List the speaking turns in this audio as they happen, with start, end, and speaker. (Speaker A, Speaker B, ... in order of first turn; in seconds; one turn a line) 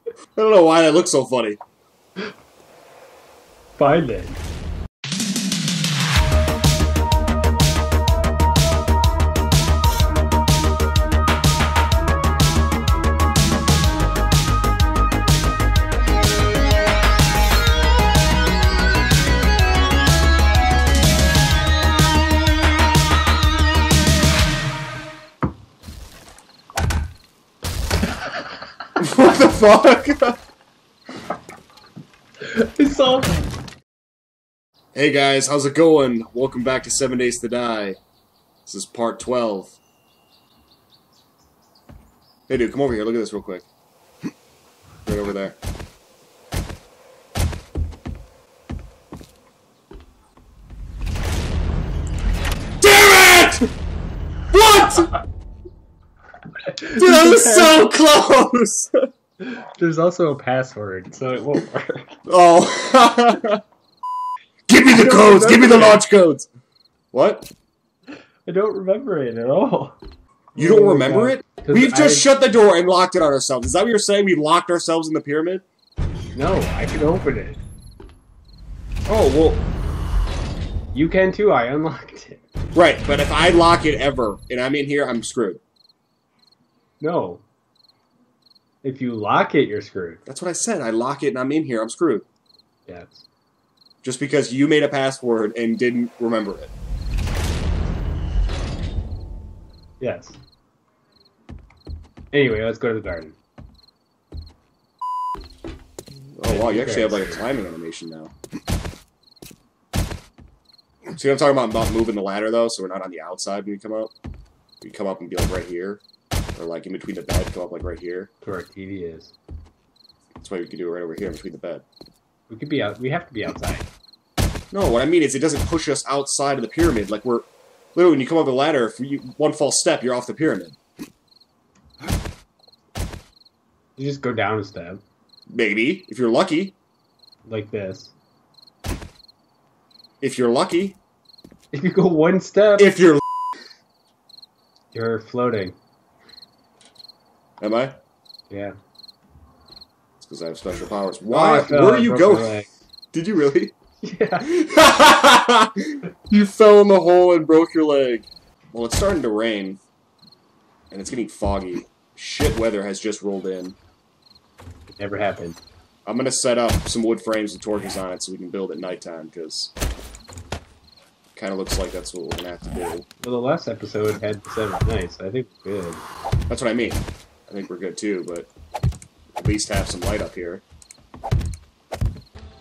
Speaker A: 0.3-1.6
Speaker B: 3.8-4.4
Speaker A: 29.0-30.4
Speaker B: 32.4-33.5
Speaker A: 35.0-38.0
Speaker A: 38.7-39.8
Speaker A: 42.5-43.7
Speaker A: 45.0-45.6
Speaker A: 52.8-53.7
Speaker A: 54.5-55.2
Speaker B: 56.6-57.9
Speaker A: 56.9-59.0
Speaker B: 59.4-62.2
Speaker A: 62.3-63.6
Speaker A: 64.7-66.5
Speaker B: 64.8-66.0
Speaker A: 67.1-67.5
Speaker B: 68.5-70.0
Speaker B: 70.5-72.3
Speaker A: 70.6-75.6
Speaker B: 76.3-77.6
Speaker A: 79.1-79.7
Speaker B: 80.9-82.4
Speaker A: 82.7-85.6
Speaker B: 87.0-87.4
Speaker B: 88.8-90.2
Speaker A: 90.3-92.3
Speaker B: 92.9-93.2
Speaker A: 94.0-96.7
Speaker B: 100.0-100.4
Speaker B: 102.3-103.4
Speaker A: 106.4-108.3
Speaker B: 106.5-107.5
Speaker A: 111.2-114.1
Speaker A: 114.8-116.0
Speaker A: 116.5-118.3
Speaker B: 118.4-119.3
Speaker A: 120.4-121.8
Speaker B: 122.5-123.9
Speaker A: 124.7-130.8
Speaker B: 134.0-135.0
Speaker A: 135.5-136.8
Speaker B: 137.5-138.1
Speaker A: 140.2-141.0
Speaker B: 141.7-143.0
Speaker A: 142.8-143.2
Speaker B: 144.9-145.8
Speaker A: 147.6-148.0
Speaker B: 148.5-148.8
Speaker A: 150.2-152.5
Speaker B: 151.3-152.7
Speaker A: 153.1-153.8
Speaker B: 154.0-154.5
Speaker A: 154.4-159.8
Speaker A: 160.9-163.8
Speaker B: 164.9-165.6
Speaker A: 166.1-169.7
Speaker A: 171.4-173.1
Speaker B: 173.2-176.0
Speaker A: 176.5-178.5
Speaker A: 179.4-180.6